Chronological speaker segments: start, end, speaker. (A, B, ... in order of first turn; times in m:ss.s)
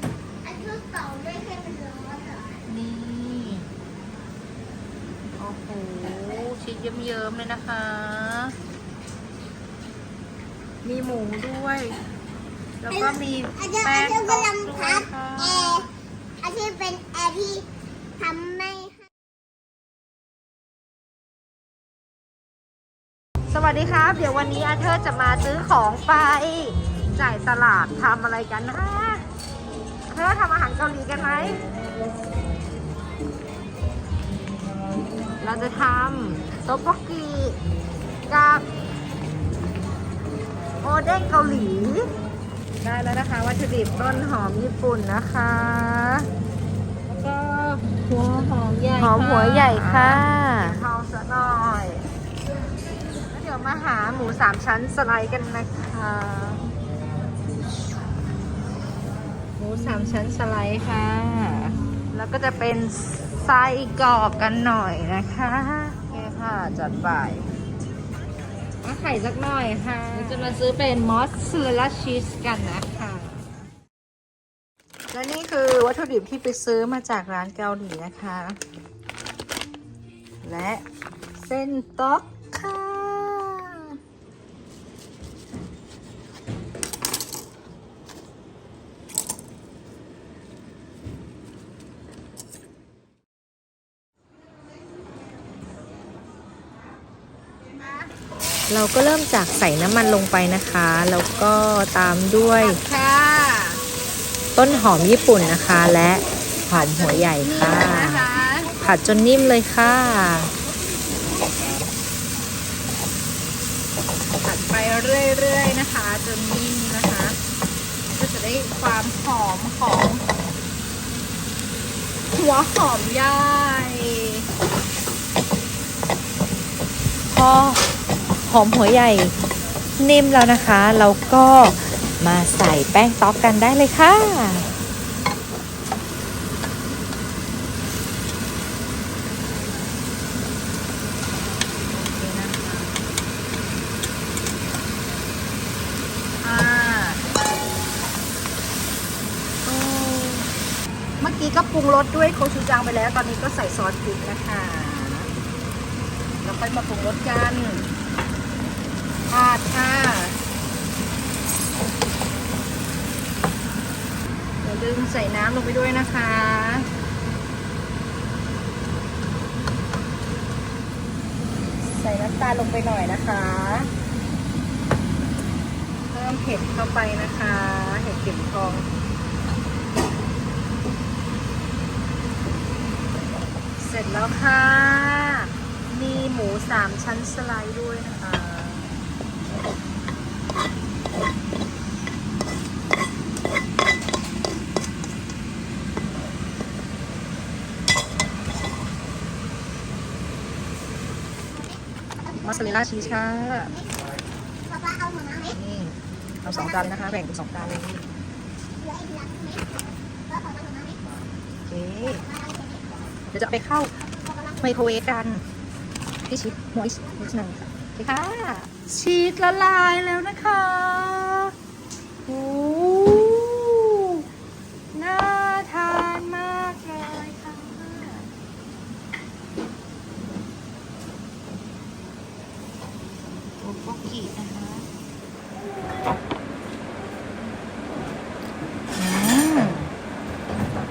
0:00.4-0:02.5 A
0:02.7-0:03.7 B
0:05.4-0:08.5 B
0:10.8-0:12.0 B
0:12.8-0:15.9 B
0:12.9-0:15.9 A
0:16.4-0:17.7 A
0:18.2-0:19.0 A
0:23.5-0:29.2 B
0:30.1-0:31.6 B
0:35.4-0:37.6 B
0:38.3-0:38.6 B
0:40.8-0:42.1 B
0:42.8-0:46.3 B
0:47.1-0:52.0 B
0:49.0-0:50.8 C
0:53.3-0:56.6 B
0:59.6-1:07.5 B
1:08.8-1:13.4 B
1:15.1-1:18.6 B
1:20.4-1:20.8 B
1:21.4-1:24.0 B
1:38.7-1:42.8 C
1:42.6-1:43.8 B
1:44.6-1:48.2 C
1:46.7-1:48.8 B
1:48.8-1:50.5 C
1:54.4-1:57.4 B
1:58.1-2:00.2 B
2:02.3-2:04.5 B
2:07.3-2:07.8 C
2:08.5-2:09.3 C
2:10.0-2:14.7 C
2:21.7-2:23.0 B
2:26.4-2:27.2 B
2:29.6-2:30.5 B
2:31.2-2:35.3 B
2:36.4-2:37.9 B
2:39.3-2:40.4 B
2:44.6-2:46.9 B
2:51.8-2:53.9 B
2:56.1-2:58.9 B
3:03.8-3:08.9 B
3:22.4-3:23.7 B
3:22.4-3:22.8 A
3:24.7-3:25.5 A
3:25.5-3:28.0 B
3:26.5-3:26.9 A
3:28.8-3:31.0 A
3:31.7-3:32.2 B
3:32.2-3:32.8 A
3:33.3-3:33.9 B
3:34.6-3:35.4 B
3:36.3-3:41.5 B
3:42.3-3:44.2 B
3:44.9-3:48.3 B
3:53.6-3:54.9 B
3:59.0-3:59.9 B